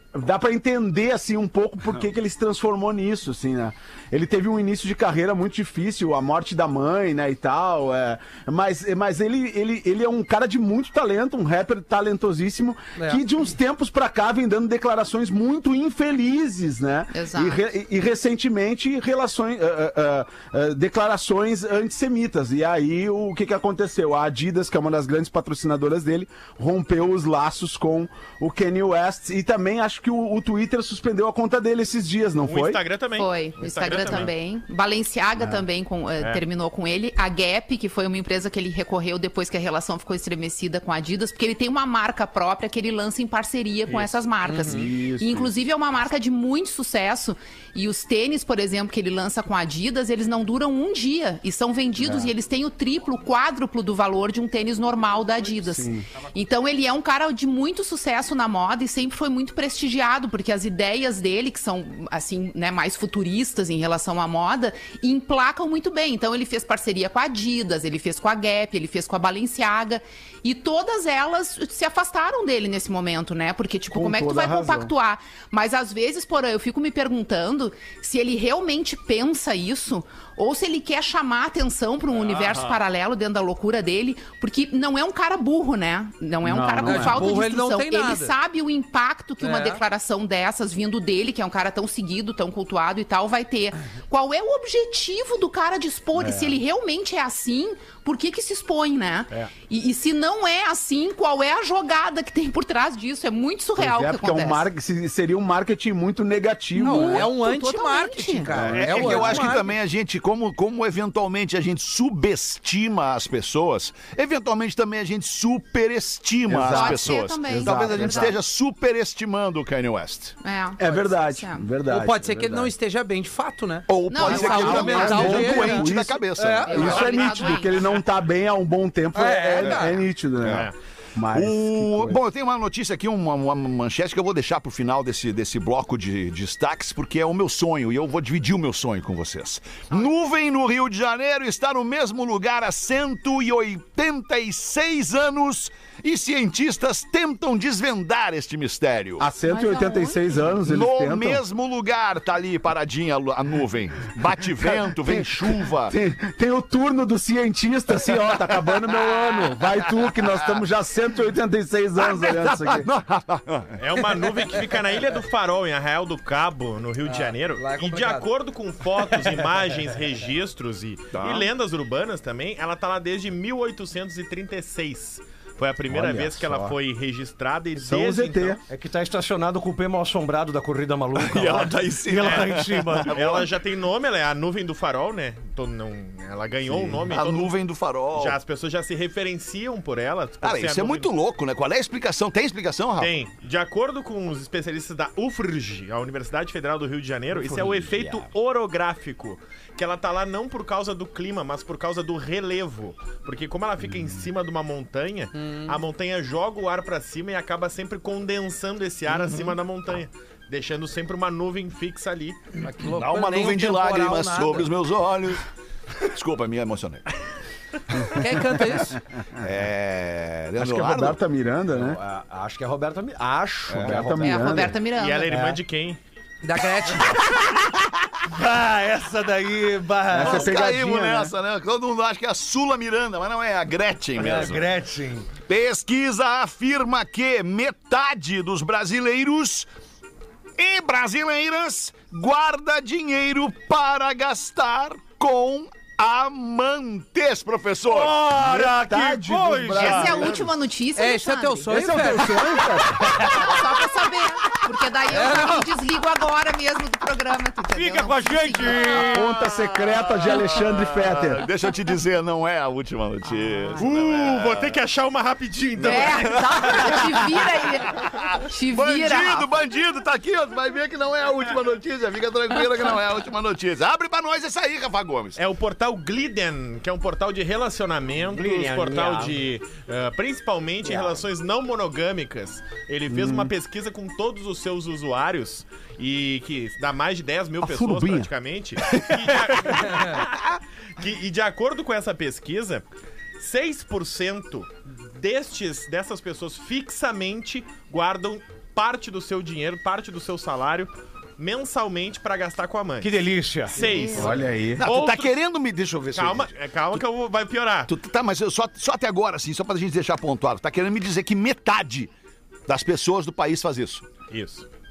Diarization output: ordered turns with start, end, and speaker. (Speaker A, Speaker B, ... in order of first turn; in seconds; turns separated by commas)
Speaker A: 0.1-32.8, Speaker B: 13.0-13.2, Speaker C: 17.1-17.6, Speaker D: 32.4-34.3, Speaker C: 33.1-104.7, Speaker B: 44.4-44.8, Speaker A: 44.6-45.5, Speaker A: 52.0-52.3, Speaker A: 55.6-56.0, Speaker A: 73.9-74.9, Speaker D: 82.1-82.8, Speaker A: 86.4-87.3, Speaker B: 86.8-88.3, Speaker B: 89.4-89.8, Speaker A: 96.2-96.5, Speaker A: 103.8-107.3, Speaker B: 106.8-109.7, Speaker C: 106.8-108.6, Speaker A: 108.5-109.4, Speaker E: 108.6-120.4, Speaker A: 116.5-118.3, Speaker C: 116.6-118.3, Speaker C: 120.4-121.6, Speaker A: 120.8-122.7, Speaker B: 121.9-126.8, Speaker E: 123.9-127.3, Speaker C: 124.1-125.2, Speaker A: 124.2-132.2, Speaker C: 126.6-127.8, Speaker B: 129.1-129.9, Speaker E: 130.4-130.7, Speaker D: 130.5-130.7, Speaker E: 131.3-149.3, Speaker A: 149.2-151.4, Speaker C: 149.5-150.4, Speaker E: 150.6-155.9, Speaker A: 154.6-162.9, Speaker E: 162.0-164.2, Speaker D: 163.8-178.6, Speaker B: 167.0-168.3, Speaker E: 171.1-171.5, Speaker A: 175.9-176.7, Speaker A: 177.8-178.6, Speaker F: 178.7-183.2, Speaker E: 181.1-183.5, Speaker D: 182.2-187.5, Speaker E: 186.7-188.4, Speaker D: 188.1-191.1, Speaker E: 190.4-193.1, Speaker D: 193.0-212.4, Speaker B: 205.3-205.7, Speaker E: 209.1-209.5, Speaker B: 212.6-214.7, Speaker E: 212.9-215.4, Speaker E: 216.0-217.0, Speaker B: 218.1-219.0, Speaker E: 219.4-221.2, Speaker A: 220.6-222.0, Speaker F: 221.7-224.6, Speaker E: 223.7-224.1, Speaker A: 223.8-224.8, Speaker C: 224.2-225.3, Speaker D: 224.9-226.0, Speaker F: 225.3-225.6, Speaker B: 226.4-227.2, Speaker F: 228.3-230.6, Speaker A: 230.1-231.3, Speaker E: 230.1-234.7, Speaker F: 234.2-235.3, Speaker D: 234.2-234.5, Speaker E: 235.4-239.7, Speaker E: 240.6-248.2, Speaker F: 247.9-250.4, Speaker A: 248.3-250.5, Speaker C: 249.7-251.9, Speaker B: 250.9-252.7, Speaker A: 251.7-253.3, Speaker C: 253.1-259.2, Speaker B: 255.1-255.7, Speaker F: 257.7-259.3, Speaker A: 259.1-261.4, Speaker E: 259.2-264.8, Speaker C: 263.3-263.8, Speaker D: 263.8-266.9, Speaker E: 265.8-275.4, Speaker C: 265.8-269.5, Speaker D: 275.4-292.8, Speaker F: 278.2-279.4, Speaker F: 280.8-281.2, Speaker A: 283.1-283.5, Speaker A: 287.6-288.3, Speaker D: 293.4-305.4, Speaker F: 303.0-303.9, Speaker C: 303.8-304.3, Speaker A: 304.1-304.8, Speaker E: 304.8-307.0, Speaker D: 306.1-307.9, Speaker E: 307.9-312.1, Speaker E: 312.7-314.1, Speaker D: 314.3-314.7